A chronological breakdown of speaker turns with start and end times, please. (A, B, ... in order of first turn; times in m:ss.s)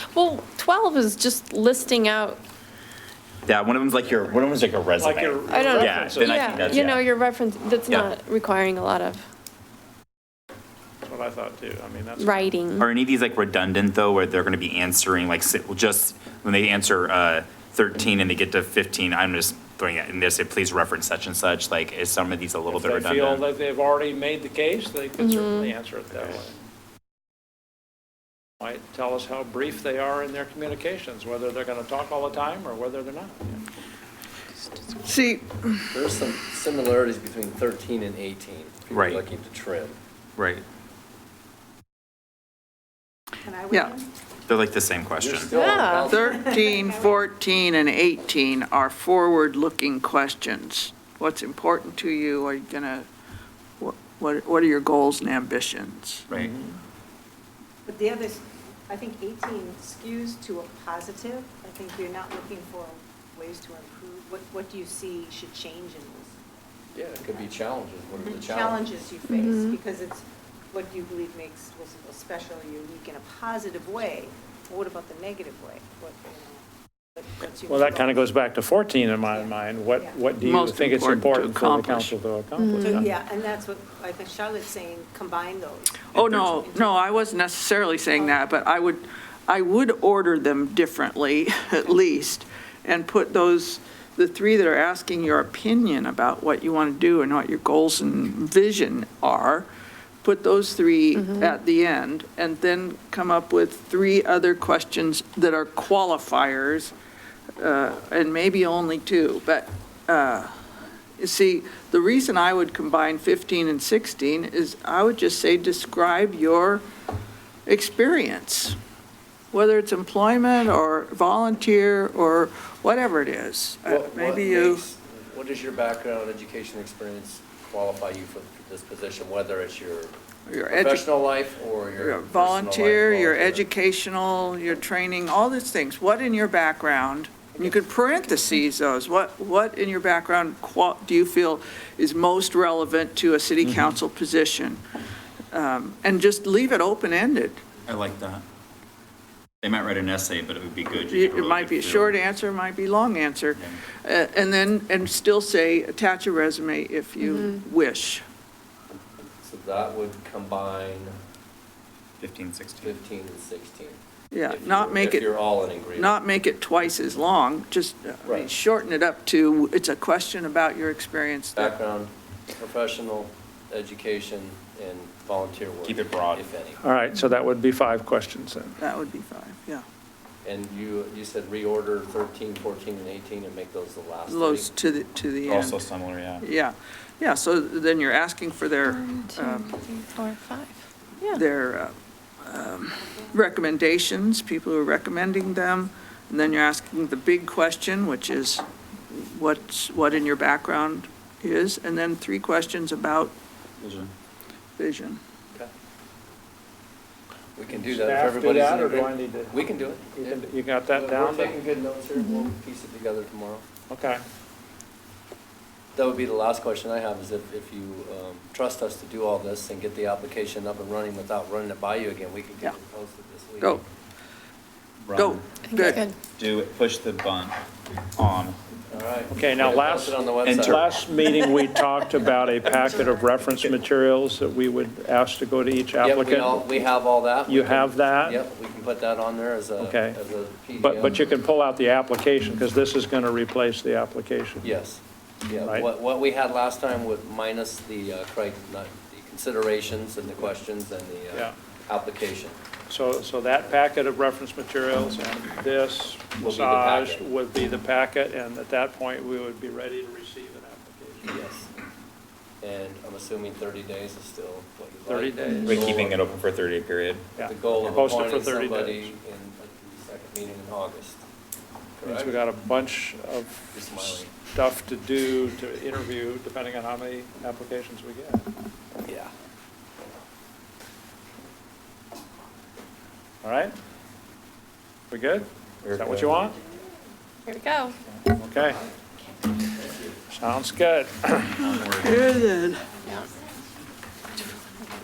0:00.1-0:02.4 A
0:03.5-0:07.1 B
0:05.0-0:06.9 C
0:05.5-0:09.2 A
0:11.0-0:12.6 C
0:12.2-0:12.9 A
0:12.8-0:23.4 B
0:22.7-0:26.6 C
0:25.2-0:25.7 A
0:28.6-0:33.6 C
0:35.0-0:36.0 D
0:35.9-0:40.0 E
0:38.9-0:39.2 B
0:40.4-0:40.6 B
0:43.4-0:44.1 F
0:44.5-0:45.6 B
0:45.2-0:46.4 E
0:45.5-0:46.1 A
0:46.1-0:53.1 D
0:46.1-0:47.3 F
0:53.8-0:56.3 D
0:56.3-0:56.6 B
0:56.4-0:56.7 C
0:57.9-1:06.4 F
1:06.9-1:08.9 E
1:08.1-1:18.3 F
1:09.3-1:09.8 A
1:17.7-1:23.1 C
1:19.2-1:20.2 F
1:20.4-1:22.2 D
1:22.6-1:23.0 A
1:22.8-1:27.3 F
1:26.1-1:39.7 D
1:28.1-1:28.5 F
1:40.2-1:46.9 D
1:41.2-1:41.5 A
1:47.6-1:50.6 D
1:51.2-1:56.8 D
1:57.7-1:58.8 D
1:59.5-2:04.8 D
2:03.8-2:10.1 E
2:10.5-2:11.1 D
2:10.7-2:13.7 E
2:12.0-2:24.8 D
2:25.5-2:27.6 D
2:27.9-2:28.4 B
2:29.6-2:32.2 B
2:31.1-2:38.2 D
2:37.3-2:37.6 A
2:38.9-2:41.2 E
2:42.2-2:43.0 B
2:42.8-2:46.2 E
2:44.3-2:45.4 D
2:45.9-2:51.8 D
2:48.2-2:48.5 E
2:51.6-2:56.8 E
2:55.8-2:56.5 B
2:56.8-2:58.8 C
2:58.8-2:59.8 D
3:00.4-3:04.7 E
3:04.3-3:05.9 D
3:05.5-3:06.4 B
3:06.4-3:09.8 D
3:09.0-3:11.4 A
3:11.3-3:23.4 D
3:23.8-3:24.1 B
3:24.8-3:25.2 D
3:27.6-3:33.6 E
3:27.8-3:29.6 C
3:30.1-3:31.6 C
3:32.2-3:32.5 A
3:33.9-3:34.2 C
3:36.0-3:43.8 E
3:45.0-3:45.4 B
3:45.2-3:46.0 D
3:45.7-3:46.2 A
3:46.4-3:47.6 B
3:48.2-3:48.6 B
3:48.9-3:51.0 E
3:49.3-3:56.7 C
3:50.4-3:50.8 B
3:56.0-4:01.3 E
3:57.5-3:58.4 C
3:59.8-4:00.2 C
4:00.8-4:04.7 C
4:04.6-4:12.6 E
4:05.6-4:05.9 C
4:12.9-4:21.3 C
4:16.4-4:17.3 E
4:21.2-4:21.7 E
4:22.6-4:26.2 E
4:25.1-4:26.1 C
4:25.7-4:27.3 B
4:27.4-4:29.1 C
4:27.4-4:31.2 E
4:32.0-4:32.4 E
4:32.0-4:38.4 C
4:33.7-4:34.3 E
4:43.4-4:43.7 C
4:45.1-4:46.6 C
4:45.8-4:46.5 B
4:47.5-4:48.0 A
4:48.3-4:48.8 C
4:49.7-4:50.2 E
4:50.3-4:51.8 C
4:51.6-4:52.3 B
4:51.9-4:53.0 D